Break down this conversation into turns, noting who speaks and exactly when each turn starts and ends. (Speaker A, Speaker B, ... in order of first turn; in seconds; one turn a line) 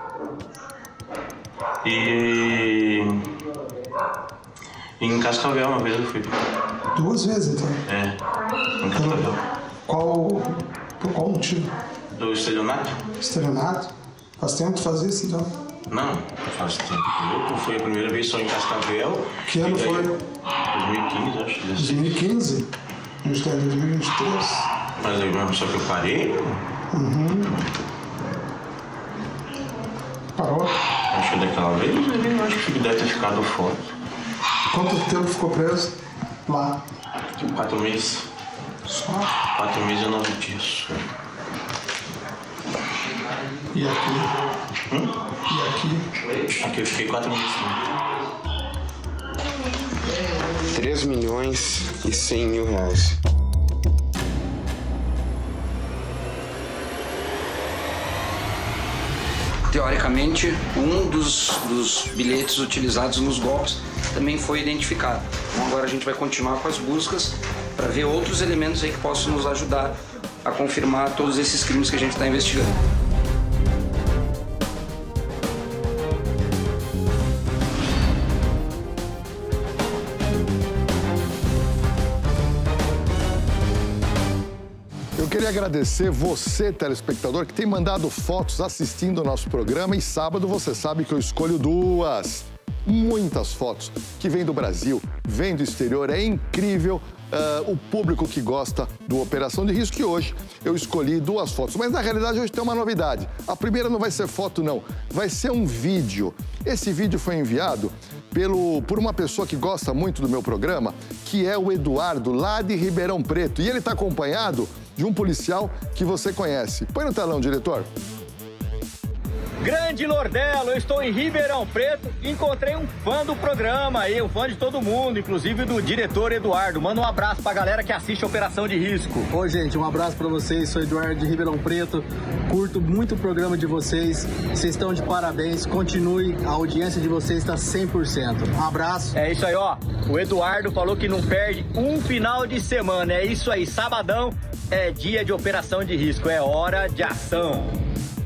Speaker A: 1.8-3.3
Speaker A: 5.0-6.4
Speaker B: 6.9-7.8
Speaker A: 7.8-8.2
Speaker A: 8.8-9.4
Speaker B: 8.9-9.2
Speaker B: 9.9-11.7
Speaker A: 12.1-13.0
Speaker B: 13.2-15.6
Speaker A: 15.9-20.1
Speaker B: 19.5-20.2
Speaker A: 20.7-22.2
Speaker B: 21.8-22.7
Speaker B: 23.2-24.7
Speaker A: 25.0-26.6
Speaker B: 26.9-27.5
Speaker B: 30.4-30.7
Speaker A: 31.1-33.9
Speaker B: 34.7-36.8
Speaker A: 37.4-38.3
Speaker B: 38.9-39.3
Speaker A: 39.5-41.0
Speaker B: 43.7-44.6
Speaker B: 45.5-46.1
Speaker A: 46.4-48.0
Speaker C: 50.6-53.1
Speaker D: 59.7-69.9
Speaker D: 70.4-72.8
Speaker E: 85.2-117.9
Speaker F: 119.6-129.3
Speaker G: 129.3-139.2
Speaker F: 139.2-147.8